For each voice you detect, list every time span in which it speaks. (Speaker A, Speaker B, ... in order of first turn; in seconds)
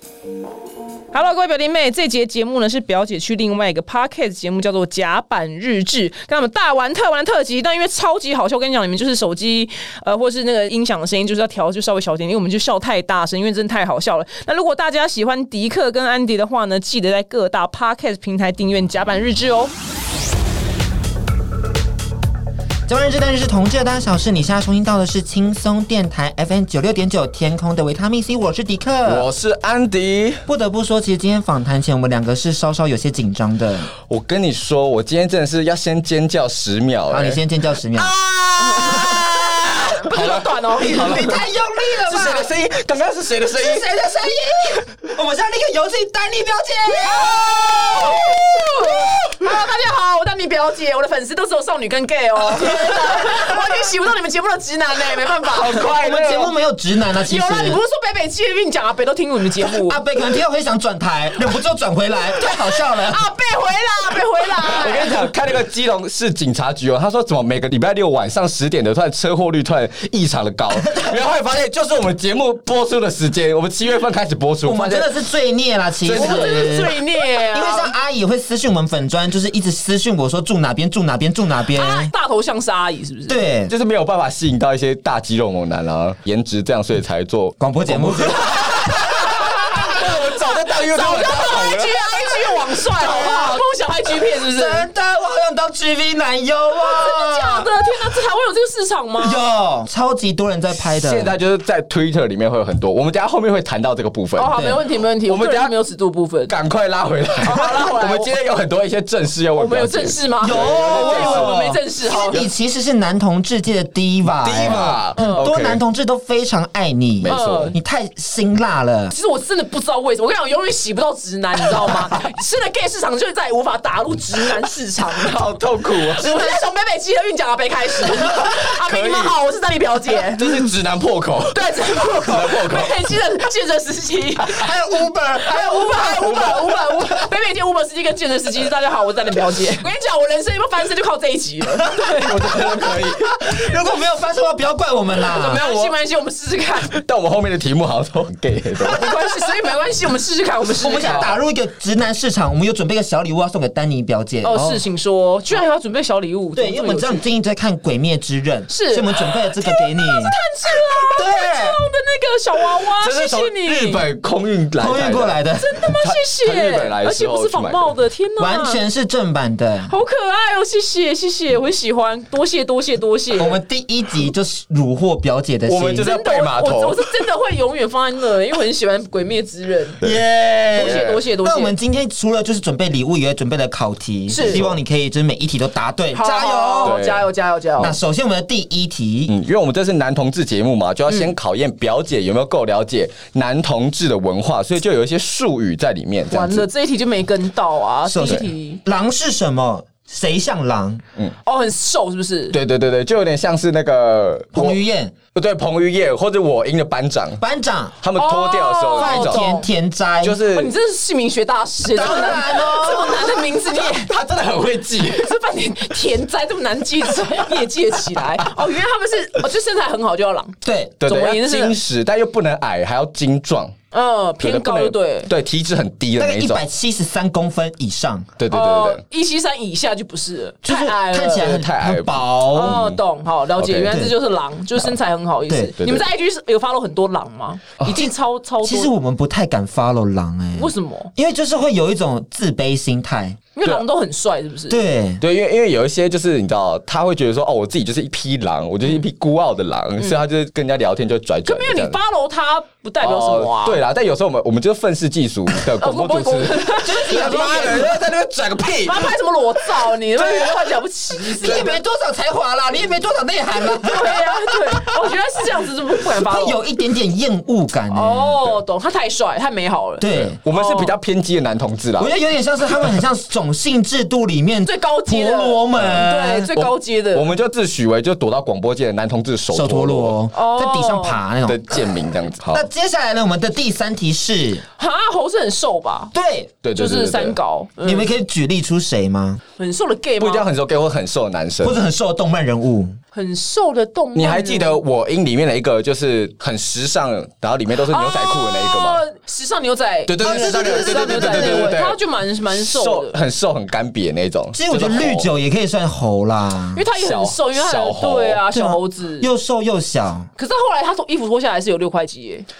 Speaker A: 1.1-19.7, 38.6-41.4, 47.0-55.9, 57.2-60.0, 62.5-65.3, 76.1-77.9, 81.7-83.5, 89.0-94.9, 96.8-99.4, 104.3-106.5, 107.4-108.3, 109.5-112.5, 115.1-115.4, 117.2-117.8, 119.1-130.7, 131.5-134.7, 135.4-142.9, 145.3-147.0, 148.9-151.3, 154.4-157.2, 158.7-164.0, 165.6-168.8, 169.9-173.6, 176.0-180.0, 180.7-181.7, 184.3-184.6, 186.1-187.9, 191.1-191.3, 196.3-198.8, 201.4-202.6, 208.1-209.7, 210.5-214.1, 215.0-221.8, 223.9-225.3, 228.5-231.6, 232.5-238.9, 240.5-241.1, 243.5-244.8, 251.4-253.8, 255.8-257.9, 258.6-261.8, 263.8-266.6, 267.9-270.9, 274.6-277.3, 280.3-281.2, 284.8-286.1, 286.7-288.1, 289.6-290.4, 293.1-294.8, 297.7-303.2, 306.7-309.3, 310.4-312.4
Speaker B: 22.9-29.3, 30.5-33.9, 37.1-38.1, 38.8-39.1, 40.8-42.5, 43.5-49.1, 52.4-53.9, 55.8-57.8, 59.6-63.3, 70.7-71.1, 74.6-82.1, 83.3-83.7, 87.6-89.5, 92.9-93.6, 94.3-98.2, 99.2-101.3, 104.5-104.8, 110.4-119.1, 126.2-126.5, 134.4-137.2, 142.0-145.6, 150.8-154.6, 156.5-160.3, 161.1-161.8, 164.8-165.7, 168.4-169.9, 173.4-176.1, 180.0-187.0, 187.8-189.3, 198.1-201.0, 204.5-205.1, 207.4-208.0, 208.9-210.4, 211.9-213.4, 220.6-221.0, 226.2-228.3, 230.6-232.8, 233.8-234.2, 235.4-235.7, 237.9-243.4, 244.7-245.2, 256.8-257.9, 261.4-268.5, 270.0-270.4, 272.0-276.5, 279.5-282.0, 282.5-284.6, 286.1-286.5, 287.8-289.4, 291.6-293.0, 300.2-301.8, 304.5-306.8, 308.5-310.3
Speaker C: 29.1-30.4, 34.0-37.4, 37.9-41.4, 42.0-43.9, 55.5-56.5, 64.6-75.1, 76.0-76.8, 83.7-92.0, 100.8-104.5, 105.2-105.7, 106.5-111.6, 114.3-115.8, 117.2-117.8, 125.1-126.4, 128.2-129.3, 130.3-133.0, 142.2-143.5, 145.4-145.9, 146.9-149.2, 150.9-151.3, 154.5-154.8, 162.9-165.4, 165.9-167.9, 175.7-177.1, 180.8-181.2, 184.3-184.8, 186.8-187.3, 189.3-196.7, 202.5-204.8, 205.3-207.4, 208.0-209.5, 210.2-210.7, 213.7-215.3, 218.2-218.5, 221.0-223.7, 224.4-226.6, 228.4-229.0, 231.3-233.0, 233.6-233.9, 235.8-236.0, 245.2-252.0, 253.0-259.1, 259.7-261.7, 270.1-272.1, 275.8-280.1, 281.4-282.6, 286.6-287.4, 290.2-291.8, 294.1-299.0, 300.1-305.3, 306.9-308.4